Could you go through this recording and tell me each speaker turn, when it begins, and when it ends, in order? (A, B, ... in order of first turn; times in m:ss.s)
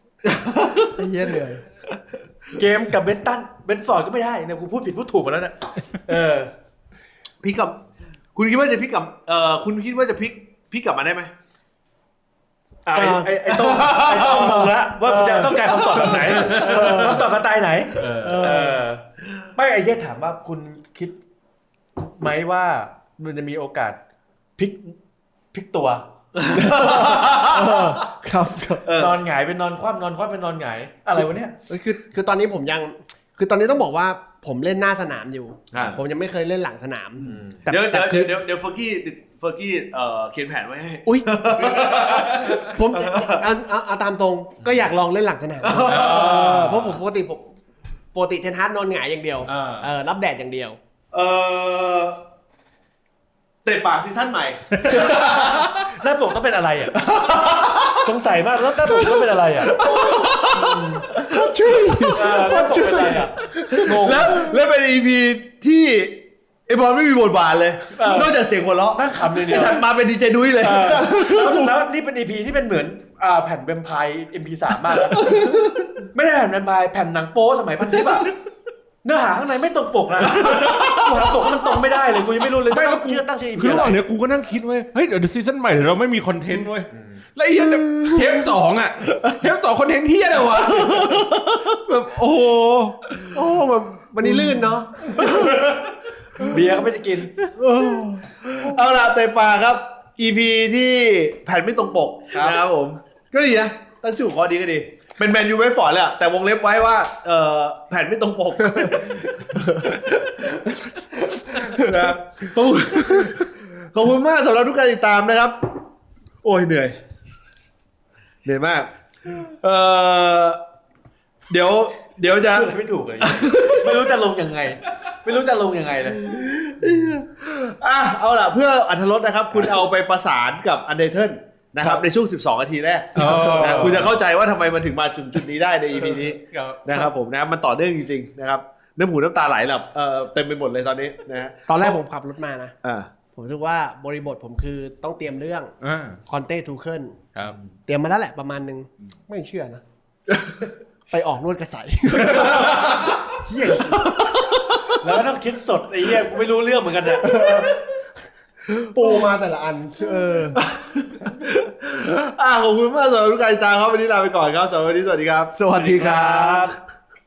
0:00.2-0:01.0 A
0:01.0-0:01.6 B
0:02.6-0:06.5 C
0:07.4-0:07.8 A
0:08.3-0:11.3 A
0:12.8-0:19.0 C
0:12.9-0:13.3 B
0:13.5-0:14.6 A
0:14.2-0:17.2 B
0:16.3-0:17.1 D
0:17.9-0:18.6 D
0:18.2-0:18.8 B
0:19.5-0:21.1 C
0:22.0-0:24.0 C
0:24.6-0:25.0 C
0:25.5-0:26.0 C
0:26.3-0:28.0 A
0:26.5-0:28.8 B
0:28.8-0:29.2 A
0:28.9-0:31.5 C
0:31.7-0:38.3 B
0:35.7-0:36.0 A
0:37.7-0:43.4 A
0:41.0-0:47.5 B
0:42.0-0:42.6 D
0:45.6-0:46.7 A
0:45.8-0:46.9 D
0:48.1-0:50.8 B
0:49.5-0:49.9 D
0:51.1-0:52.2 A
0:53.6-0:55.5 A
0:54.8-0:55.8 D
0:54.9-0:57.0 C
0:56.9-0:58.1 A
0:58.0-0:59.8 C
0:58.8-1:02.0 A
1:00.5-1:04.5 B
1:02.1-1:04.4 C
1:03.7-1:11.7 A
1:08.0-1:08.3 C
1:08.9-1:09.8 C
1:10.6-1:15.4 C
1:15.2-1:15.6 B
1:16.1-1:18.3 C
1:19.0-1:24.0 C
1:20.4-1:21.0 D
1:22.7-1:33.2 D
1:27.9-1:28.2 B
1:33.3-1:35.5 B
1:35.2-1:35.8 D
1:36.4-1:37.3 C
1:37.6-1:55.6 A
1:37.6-1:38.6 B
1:51.6-1:52.1 B
1:53.0-1:53.3 B
1:56.4-1:57.0 A
1:58.4-2:00.6 A
2:01.5-2:03.9 A
2:02.5-2:06.3 C
2:06.1-2:21.9 A
2:13.1-2:14.1 D
2:13.6-2:14.0 C
2:16.5-2:16.8 D
2:21.7-2:22.7 B
2:22.8-2:23.1 A
2:23.3-2:25.7 B
2:25.8-2:26.2 D
2:26.3-2:27.2 B
2:27.9-2:29.8 B
2:31.1-2:33.1 B
2:32.3-2:33.2 D
2:33.4-2:34.0 C
2:33.8-2:34.9 A
2:35.0-2:37.4 C
2:37.2-2:37.7 B
2:38.7-2:40.6 B
2:40.6-2:45.5 A
2:45.5-2:46.7 B
2:45.8-2:46.7 C